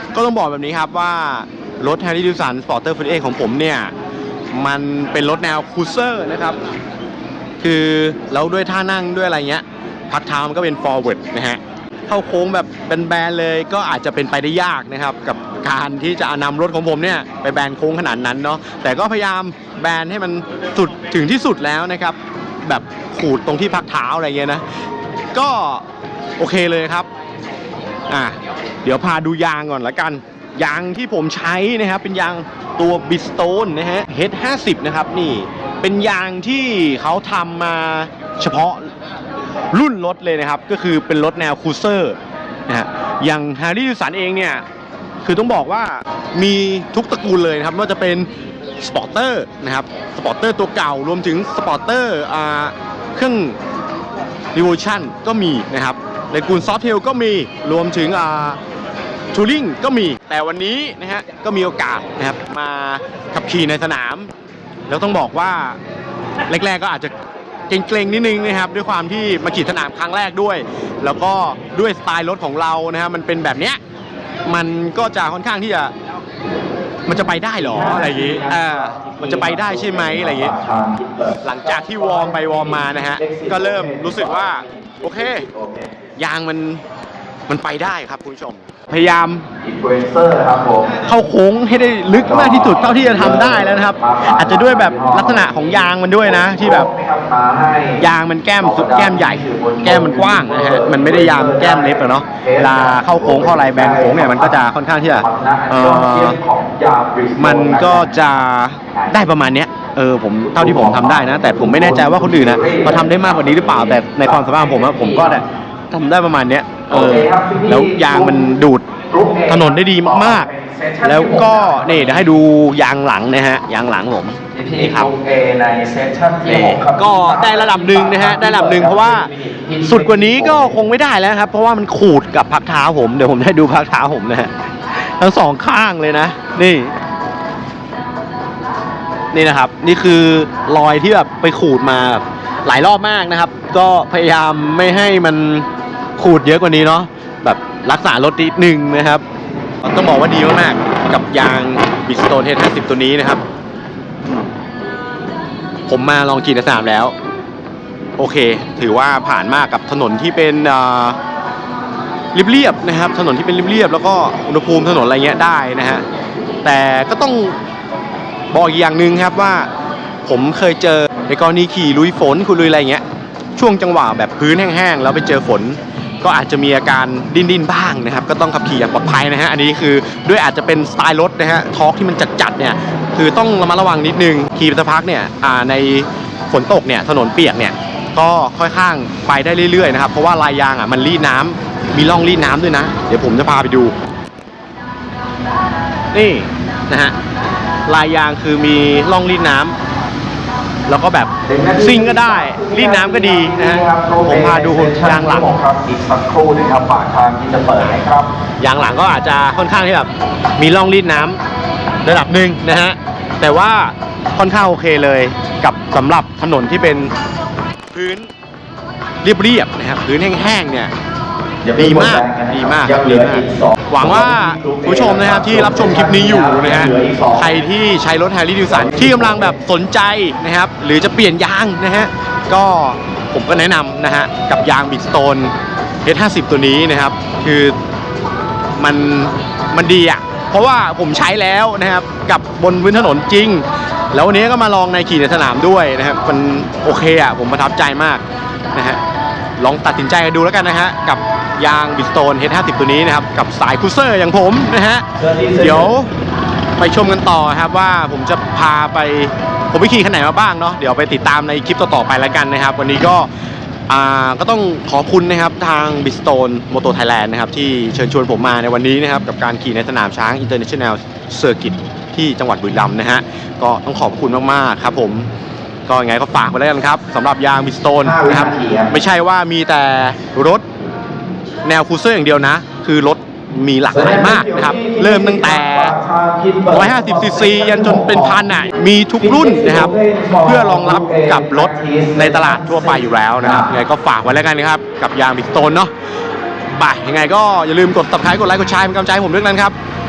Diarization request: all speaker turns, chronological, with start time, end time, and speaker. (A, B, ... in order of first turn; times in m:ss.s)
0:00.1-0:03.9 A
0:04.5-0:06.6 A
0:07.6-0:24.6 A
0:25.3-0:25.8 A
0:26.4-0:27.1 A
0:28.1-0:38.9 A
0:39.7-0:44.6 A
0:45.2-0:53.6 A
0:54.5-0:58.6 A
0:59.3-1:04.3 A
1:04.9-1:05.8 A
1:06.5-1:07.2 A
1:07.7-1:13.8 A
1:14.4-1:15.9 A
1:17.1-1:20.6 A
1:17.8-1:22.5 B
1:21.3-1:26.8 A
1:23.2-1:25.9 B
1:27.5-1:29.6 A
1:29.6-1:30.9 B
1:30.9-1:36.9 A
1:32.1-1:35.8 B
1:36.4-1:38.0 B
1:38.0-1:46.4 A
1:38.6-1:44.6 B
1:45.2-1:48.1 B
1:47.4-2:05.1 A
1:50.6-1:55.4 B
1:56.9-1:58.4 B
1:59.0-2:02.3 B
2:04.5-2:10.8 B
2:06.4-2:17.0 A
2:19.3-2:29.2 A
2:29.8-2:33.4 A
2:35.9-2:37.1 A
2:38.2-2:41.2 A
2:42.3-2:46.0 A
2:46.6-2:47.6 A
2:48.5-2:49.7 A
2:50.2-2:53.0 A
2:53.6-3:13.9 A
3:16.1-3:17.1 A
3:17.9-3:19.8 A
3:20.9-3:25.5 A
3:21.4-3:28.4 B
3:28.5-3:31.4 A
3:32.0-3:37.1 A
3:37.9-3:38.3 A
3:39.2-3:40.9 A
3:41.6-3:47.6 B
3:41.6-3:57.8 A
3:48.8-3:49.5 B
3:58.8-4:08.2 A
4:08.7-4:09.0 A
4:09.6-4:16.1 A
4:15.2-4:15.6 B
4:16.8-4:23.3 A
4:23.9-4:35.3 A
4:35.9-4:40.6 A
4:38.1-4:38.9 B
4:41.6-4:46.0 A
4:43.9-4:48.4 B
4:46.7-4:55.9 A
4:49.2-4:53.7 B
4:56.6-4:59.8 A